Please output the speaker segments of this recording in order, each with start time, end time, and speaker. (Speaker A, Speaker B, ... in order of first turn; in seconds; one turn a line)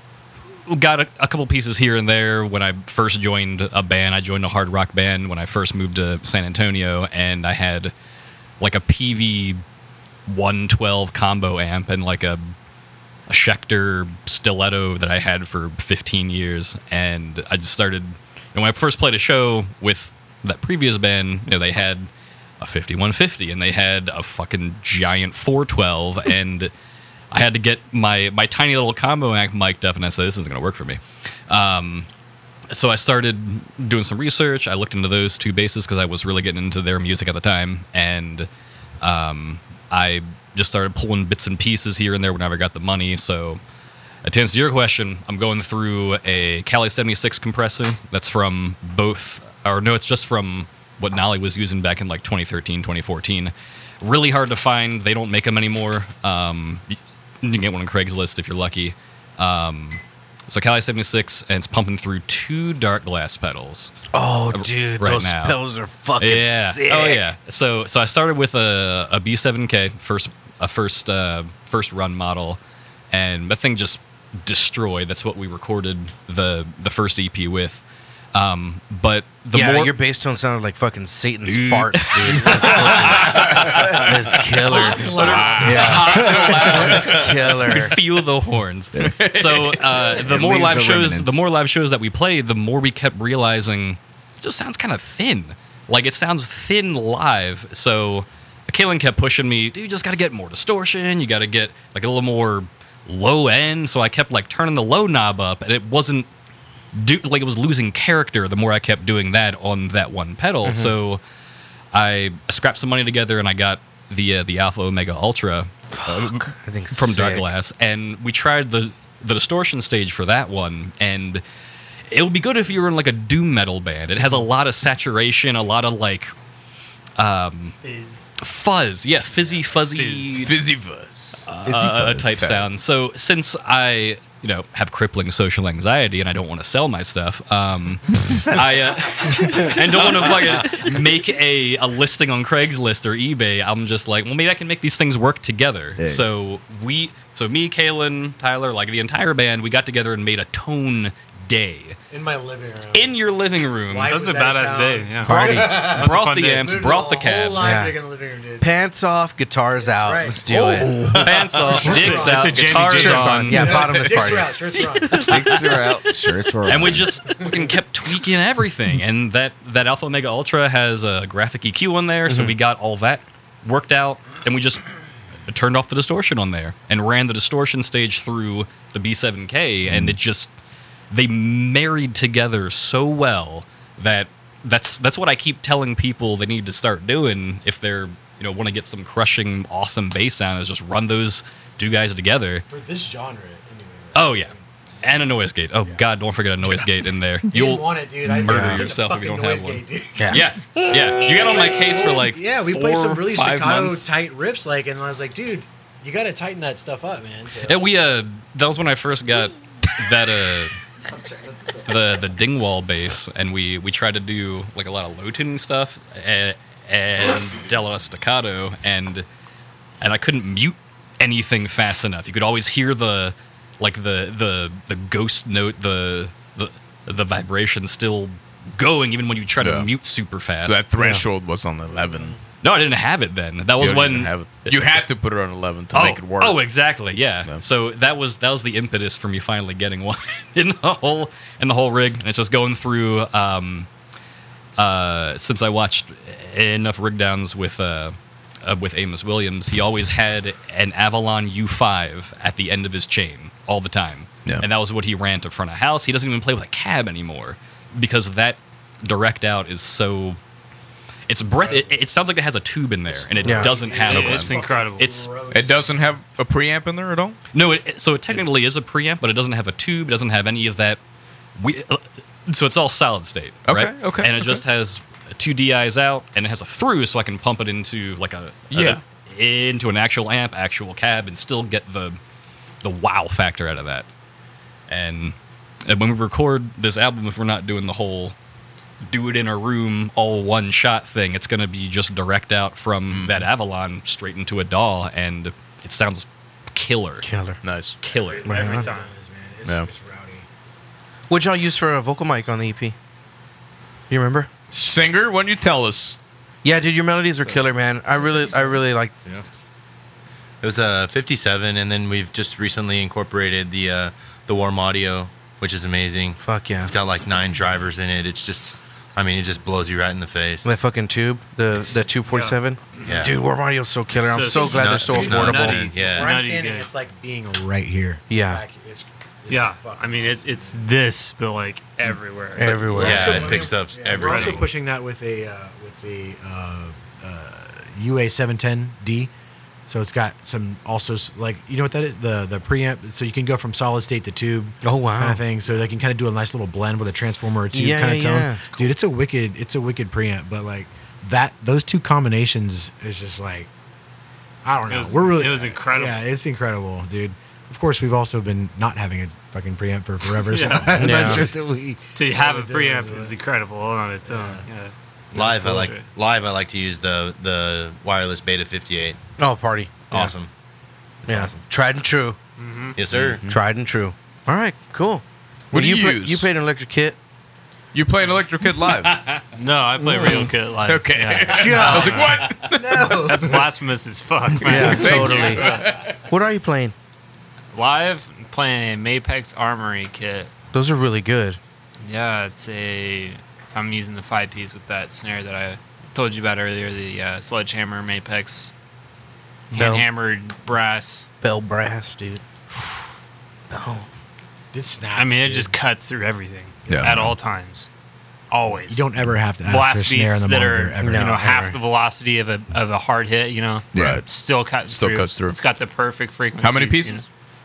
Speaker A: 0.7-7.9
Speaker A: 8.6-9.6
Speaker A: 10.3-12.5
Speaker A: 13.3-22.1
Speaker A: 22.6-26.7
Speaker A: 27.3-32.1
Speaker A: 32.7-38.5
Speaker A: 39.0-43.6
Speaker A: 44.2-63.9
Speaker B: 64.1-67.3
Speaker A: 64.5-65.6
Speaker A: 66.2-72.6
Speaker A: 73.1-77.8
Speaker A: 78.3-80.0
Speaker B: 79.5-88.0
Speaker A: 81.5-106.3
Speaker C: 82.8-83.4
Speaker D: 83.2-83.9
Speaker C: 84.6-86.9
Speaker D: 85.2-87.4
Speaker D: 89.0-90.0
Speaker E: 90.0-91.4
Speaker A: 106.9-111.2
Speaker B: 110.6-111.0
Speaker A: 111.9-121.4
Speaker B: 115.9-117.5
Speaker A: 122.1-126.3
Speaker F: 124.2-124.5
Speaker A: 127.2-127.7
Speaker F: 127.8-128.3
Speaker A: 128.4-130.6
Speaker F: 129.5-130.5
Speaker D: 130.4-132.7
Speaker A: 131.5-152.0
Speaker E: 146.0-146.3
Speaker C: 152.1-153.1
Speaker A: 152.9-154.1
Speaker C: 153.9-158.7
Speaker F: 154.1-156.7
Speaker B: 155.2-155.8
Speaker A: 155.5-157.8
Speaker B: 157.6-158.0
Speaker B: 158.6-160.9
Speaker C: 159.8-162.6
Speaker A: 161.0-163.7
Speaker F: 161.1-163.8
Speaker B: 161.7-165.2
Speaker C: 163.5-165.4
Speaker E: 165.1-167.1
Speaker A: 166.6-174.9
Speaker B: 172.3-172.6
Speaker A: 175.5-180.5
Speaker E: 179.9-180.2
Speaker A: 181.1-192.7
Speaker C: 192.7-195.3
Speaker A: 194.1-204.1
Speaker C: 197.5-207.9
Speaker B: 198.4-198.9
Speaker B: 200.2-200.4
Speaker A: 207.6-210.7
Speaker A: 211.8-219.2
Speaker A: 220.0-230.8
Speaker D: 229.6-229.9
Speaker D: 230.6-232.4
Speaker B: 230.9-231.2
Speaker A: 232.6-235.1
Speaker D: 233.8-236.6
Speaker A: 235.9-243.9
Speaker A: 244.8-260.4
Speaker A: 261.3-265.3
Speaker C: 261.6-262.0
Speaker C: 263.1-266.2
Speaker B: 263.4-263.7
Speaker F: 263.7-265.1
Speaker D: 265.5-267.4
Speaker A: 267.5-271.0
Speaker A: 271.6-282.2
Speaker D: 273.7-274.6
Speaker D: 278.7-279.0
Speaker A: 282.8-284.1
Speaker A: 284.9-285.4
Speaker A: 285.9-288.4
Speaker A: 289.1-297.3
Speaker D: 293.1-293.4
Speaker B: 297.2-297.6
Speaker D: 297.6-298.0
Speaker A: 298.0-298.5
Speaker F: 298.1-299.1
Speaker C: 298.4-300.5
Speaker B: 298.4-298.9
Speaker B: 301.3-302.9
Speaker B: 304.1-304.5
Speaker D: 304.7-306.2
Speaker B: 306.6-309.1
Speaker G: 310.6-320.7
Speaker B: 316.4-316.9
Speaker B: 320.6-325.8
Speaker F: 321.9-323.2
Speaker G: 323.0-323.3
Speaker F: 324.1-326.9
Speaker G: 324.6-326.3
Speaker C: 325.1-330.9
Speaker B: 328.3-328.6
Speaker F: 329.5-334.7
Speaker B: 332.6-333.5
Speaker C: 332.6-339.3
Speaker G: 333.0-334.7
Speaker C: 339.9-353.7
Speaker B: 344.8-345.4
Speaker B: 347.7-348.9
Speaker C: 354.6-363.4
Speaker F: 354.9-356.2
Speaker F: 360.4-361.5
Speaker B: 360.9-361.5
Speaker F: 362.1-366.1
Speaker C: 364.2-364.6
Speaker G: 365.3-369.2
Speaker C: 365.4-365.9
Speaker B: 369.4-370.3
Speaker G: 370.1-370.5
Speaker G: 371.3-371.6
Speaker B: 371.3-372.4
Speaker F: 372.6-373.0
Speaker G: 373.0-373.5
Speaker D: 373.1-373.5
Speaker B: 373.5-377.2
Speaker D: 375.7-376.5
Speaker D: 377.9-379.2
Speaker A: 379.0-379.4
Speaker F: 379.5-382.6
Speaker D: 380.1-383.6
Speaker C: 381.5-383.6
Speaker F: 383.1-386.1
Speaker D: 384.6-386.0
Speaker B: 384.6-386.9
Speaker F: 387.7-390.5
Speaker B: 390.7-391.6
Speaker F: 392.0-398.7
Speaker F: 399.7-401.3
Speaker B: 399.7-400.1
Speaker B: 401.4-402.4
Speaker B: 403.7-404.1
Speaker C: 404.7-405.7
Speaker F: 405.1-407.9
Speaker D: 406.9-407.4
Speaker F: 408.5-409.1
Speaker C: 408.9-411.6
Speaker F: 409.6-417.2
Speaker B: 411.0-411.8
Speaker E: 413.9-414.2
Speaker D: 414.0-414.3
Speaker D: 414.9-415.6
Speaker D: 416.6-417.2